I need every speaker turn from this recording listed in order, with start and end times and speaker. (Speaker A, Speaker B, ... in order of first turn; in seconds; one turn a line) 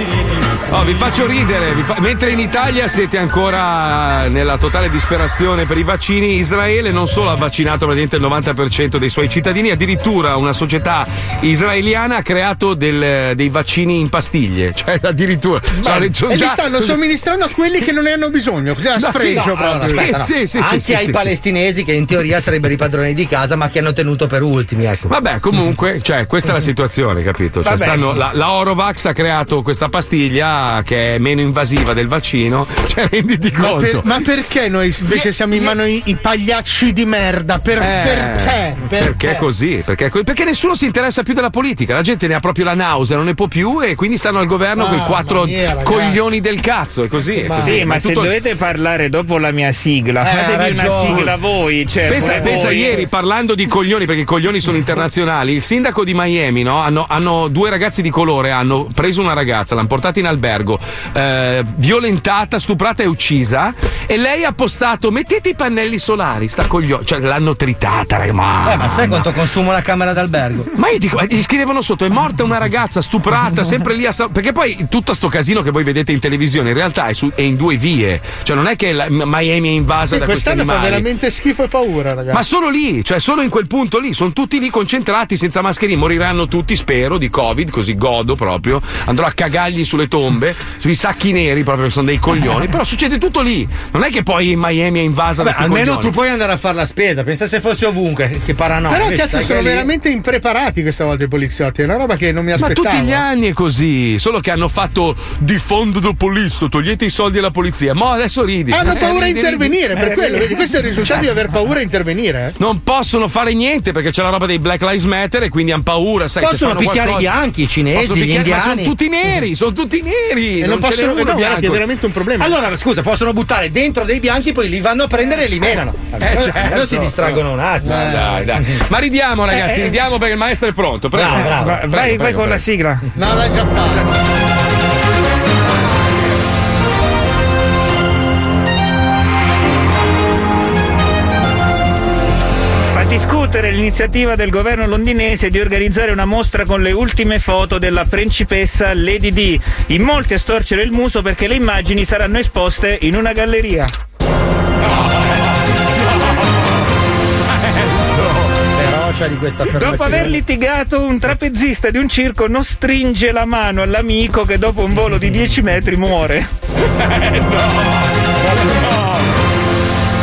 Speaker A: 0.7-17.0
Speaker B: 15.8-20.1
Speaker A: 18.9-21.4
Speaker C: 19.3-25.1
Speaker A: 25.1-34.1
Speaker D: 27.6-28.2
Speaker B: 33.6-39.4
Speaker A: 35.1-35.8
Speaker A: 37.8-48.3
Speaker B: 44.8-46.2
Speaker D: 47.5-53.0
Speaker C: 50.2-51.3
Speaker A: 51.0-51.2
Speaker A: 52.0-69.3
Speaker C: 68.6-70.7
Speaker A: 70.8-81.1
Speaker B: 80.1-82.4
Speaker A: 82.3-96.1
Speaker C: 95.4-99.9
Speaker B: 98.9-103.2
Speaker A: 102.6-110.0
Speaker B: 108.7-112.6
Speaker A: 112.6-117.3
Speaker C: 116.4-118.9
Speaker A: 117.9-121.8
Speaker B: 120.6-122.6
Speaker C: 122.4-128.4
Speaker A: 126.2-132.7
Speaker B: 127.8-128.4
Speaker C: 131.1-131.8
Speaker D: 131.3-133.1
Speaker B: 133.2-134.1
Speaker D: 142.9-153.9
Speaker A: 154.9-155.4
Speaker A: 156.0-156.3
Speaker A: 157.5-158.6
Speaker C: 158.8-160.4
Speaker D: 159.7-166.5
Speaker A: 167.0-168.1
Speaker D: 168.5-168.9